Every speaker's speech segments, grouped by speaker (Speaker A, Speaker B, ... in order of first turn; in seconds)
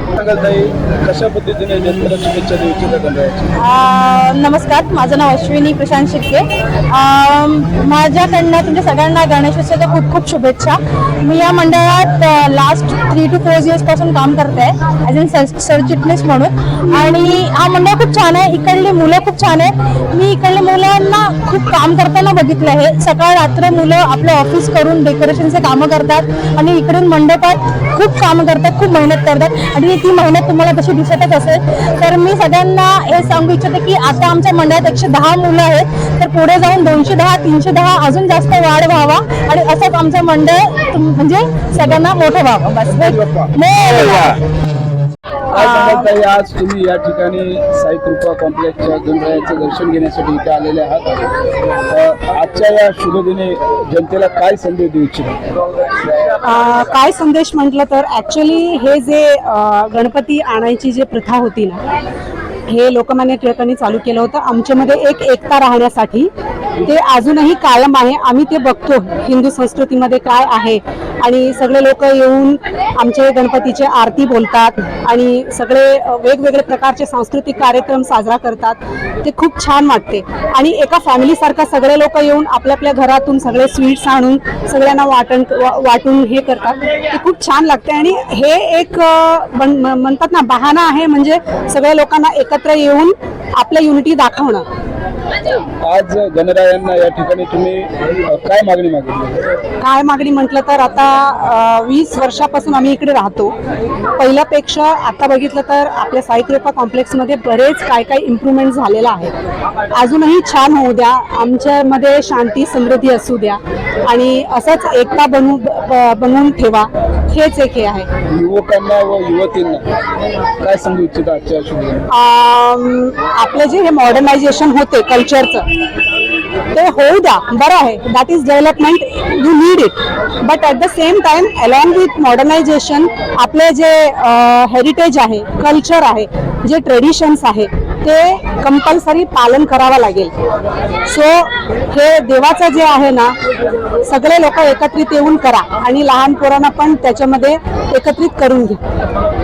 Speaker A: 0.1-3.5, 42.8-44.0, 45.5-51.1, 51.9-55.4, 95.8-99.4, 118.3-119.8, 120.6-122.1
Speaker B: 3.6-44.4, 45.5-46.0
Speaker C: 56.4-61.8, 62.7-66.3, 66.8-94.7, 99.8-103.5, 104.2-109.3, 109.9-118.1, 122.1-125.7, 126.7-140.3, 141.1-143.4, 144.0-148.8